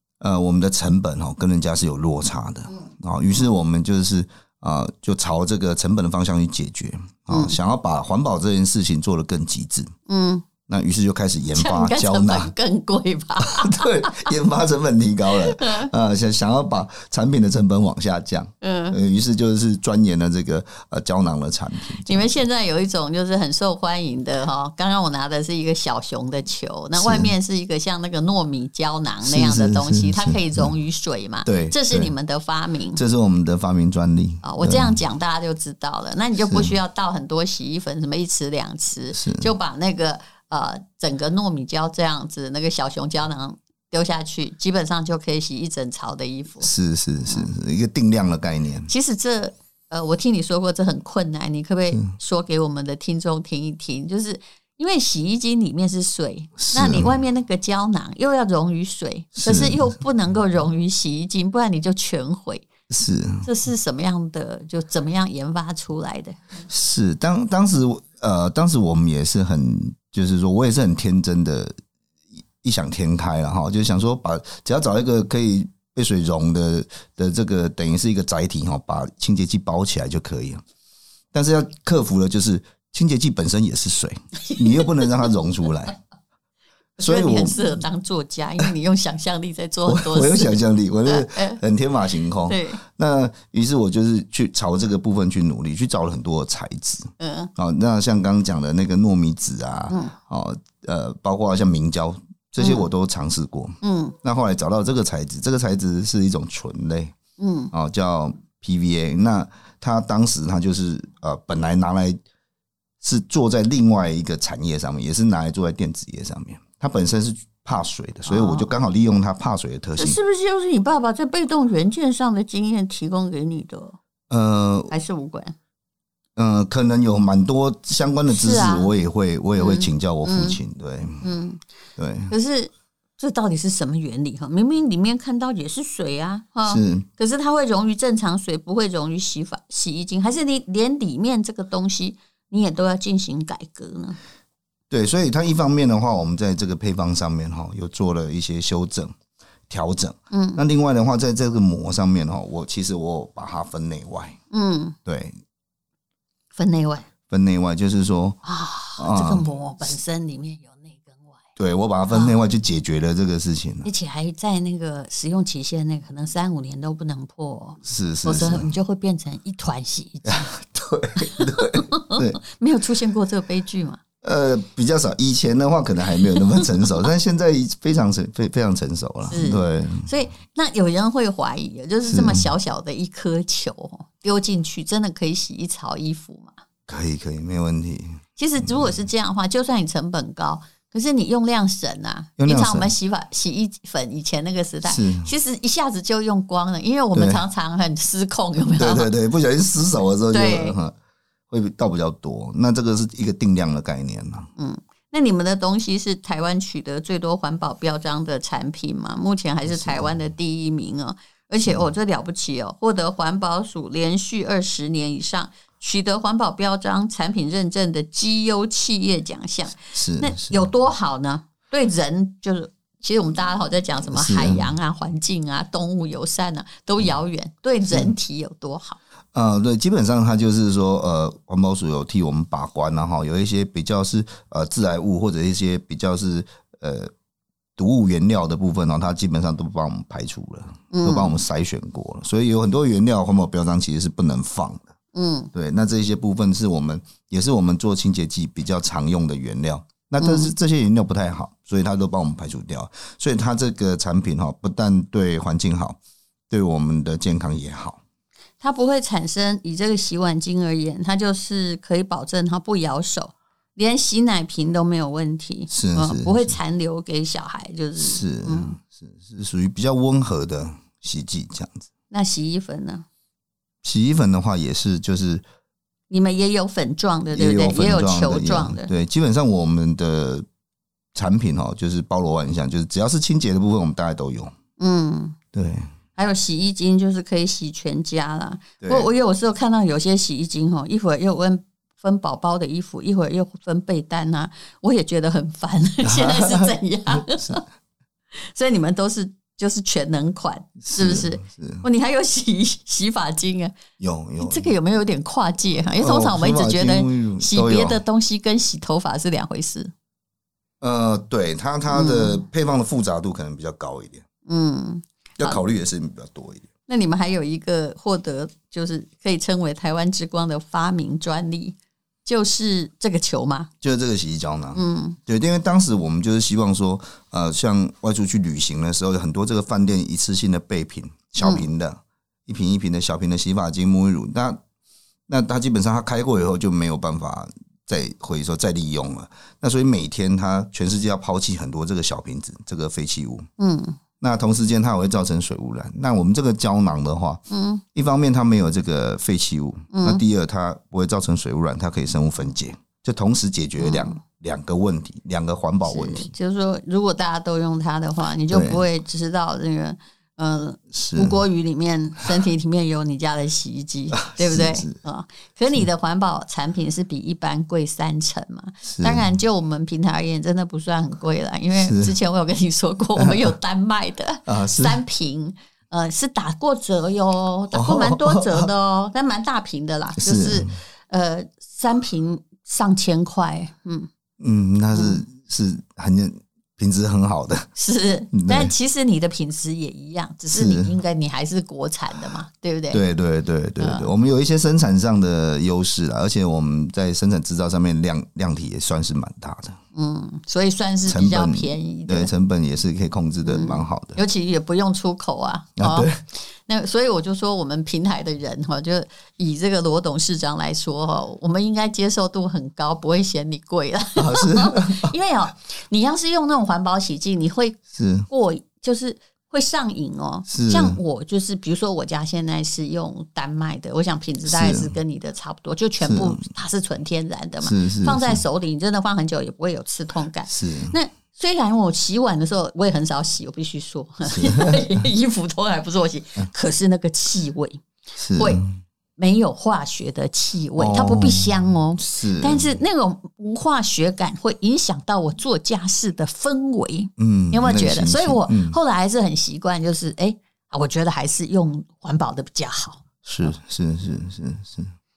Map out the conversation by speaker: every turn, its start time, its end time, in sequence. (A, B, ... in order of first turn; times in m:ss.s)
0:00.2-0:09.9 A
0:07.3-0:07.6 B
0:10.1-0:10.4 B
0:10.7-0:12.5 A
0:11.5-0:14.3 B
0:13.4-0:22.3 A
0:15.3-0:15.9 B
0:18.6-0:19.0 B
0:22.0-0:33.0 B
0:27.0-0:27.3 A
0:29.2-0:30.7 A
0:31.4-0:32.1 A
0:33.0-0:35.0 A
0:34.4-0:46.7 B
0:36.5-0:36.7 A
0:39.1-0:39.5 A
0:46.6-0:48.9 A
0:48.9-1:02.7 B
0:56.6-0:57.1 A
0:59.4-0:59.9 A
1:02.9-1:03.5 A
1:03.4-1:06.4 B
1:06.7-1:11.7 A
1:12.6-1:20.6 A
1:21.3-1:26.0 A
1:24.5-1:25.1 B
1:27.0-1:31.6 B
1:27.0-1:27.8 A
1:29.8-1:47.1 A
1:32.4-1:32.8 B
1:37.2-1:37.5 B
1:39.9-1:40.1 B
1:42.6-1:42.8 B
1:43.8-1:44.1 B
1:47.4-1:47.7 B
1:47.7-1:52.2 A
1:53.0-2:00.2 A
1:58.2-1:58.7 B
2:00.0-2:04.0 B
2:04.3-2:04.9 A
2:04.9-2:05.5 B
2:06.4-2:11.2 A
2:08.3-2:08.9 B
2:09.6-2:10.6 B
2:11.2-2:11.6 B
2:12.0-2:12.3 A
2:12.3-2:24.2 B
2:16.6-2:17.0 A
2:24.9-2:29.1 A
2:29.7-2:34.4 A
2:30.3-2:30.6 B
2:34.5-2:35.0 B
2:35.0-2:35.4 A
2:36.5-2:37.1 B
2:37.3-2:38.4 A
2:38.4-2:41.4 B
2:39.0-2:39.4 A
2:41.6-2:43.9 A
2:42.1-2:42.3 B
2:43.8-2:50.5 B
2:47.8-2:48.7 A
2:50.2-2:52.4 A
2:51.2-2:54.0 B
2:54.2-3:00.1 A
2:59.2-3:06.6 B
3:02.0-3:02.5 A
3:06.9-3:08.9 A
3:08.4-3:19.1 B
3:12.4-3:12.9 A
3:14.8-3:15.3 A
3:17.1-3:17.4 A
3:18.8-3:20.9 A
3:20.3-3:20.8 B
3:21.5-3:24.5 A
3:24.6-3:49.0 B
3:29.7-3:30.1 A
3:39.9-3:40.6 A
3:44.1-3:44.7 A
3:49.3-3:57.1 A
3:57.8-4:04.9 A
4:00.9-4:01.4 B
4:05.1-4:05.5 B
4:05.5-4:16.0 A
4:10.2-4:10.5 B
4:16.5-4:18.0 A
4:18.6-4:28.8 B
4:25.7-4:26.6 A
4:28.0-4:31.9 A
4:32.1-4:33.0 B
4:33.8-4:35.4 A
4:36.1-4:38.9 B
4:37.3-4:40.4 A
4:41.1-4:44.5 A
4:44.8-4:45.4 B
4:45.5-4:45.9 A
4:46.2-4:57.6 B
4:48.8-4:49.1 A
4:56.0-4:57.6 A
4:58.4-5:03.7 B
5:00.8-5:01.8 A
5:04.0-5:04.7 A
5:04.4-5:09.9 B
5:06.0-5:08.0 A
5:10.8-5:14.2 A
5:11.9-5:12.4 B
5:14.4-5:15.6 B
5:15.4-5:16.7 A
5:16.9-5:23.7 B
5:23.8-5:34.6 A
5:24.7-5:25.2 B
5:31.4-5:31.7 B
5:35.3-5:43.5 A
5:43.6-5:44.0 B
5:44.2-5:56.3 A
5:47.5-5:47.8 B
5:49.9-5:50.2 B
5:53.8-5:54.2 B
5:55.8-6:24.1 B
5:58.5-5:58.8 A
6:00.9-6:01.4 A
6:04.2-6:05.0 A
6:08.8-6:09.2 A
6:11.7-6:12.1 A
6:13.2-6:13.5 A
6:14.5-6:15.0 A
6:17.7-6:18.7 A
6:20.2-6:20.7 A
6:24.4-6:27.7 A
6:24.9-6:25.2 B
6:27.8-6:33.0 B
6:28.3-6:28.7 A
6:30.5-6:30.9 A
6:32.9-6:39.8 A
6:33.8-6:34.1 B
6:39.9-6:42.3 B
6:41.0-6:44.2 A
6:43.4-7:17.8 B
6:45.8-6:46.2 A
6:54.2-6:55.1 A
6:57.9-6:58.3 A
7:00.5-7:01.0 A
7:04.4-7:04.9 A
7:06.0-7:06.4 A
7:07.6-7:08.4 A
7:10.5-7:10.9 A
7:14.3-7:14.9 A
7:18.2-7:18.8 A
7:18.4-7:18.6 B
7:19.2-7:33.0 B
7:20.8-7:22.6 A
7:27.2-7:28.8 A
7:33.2-7:34.9 A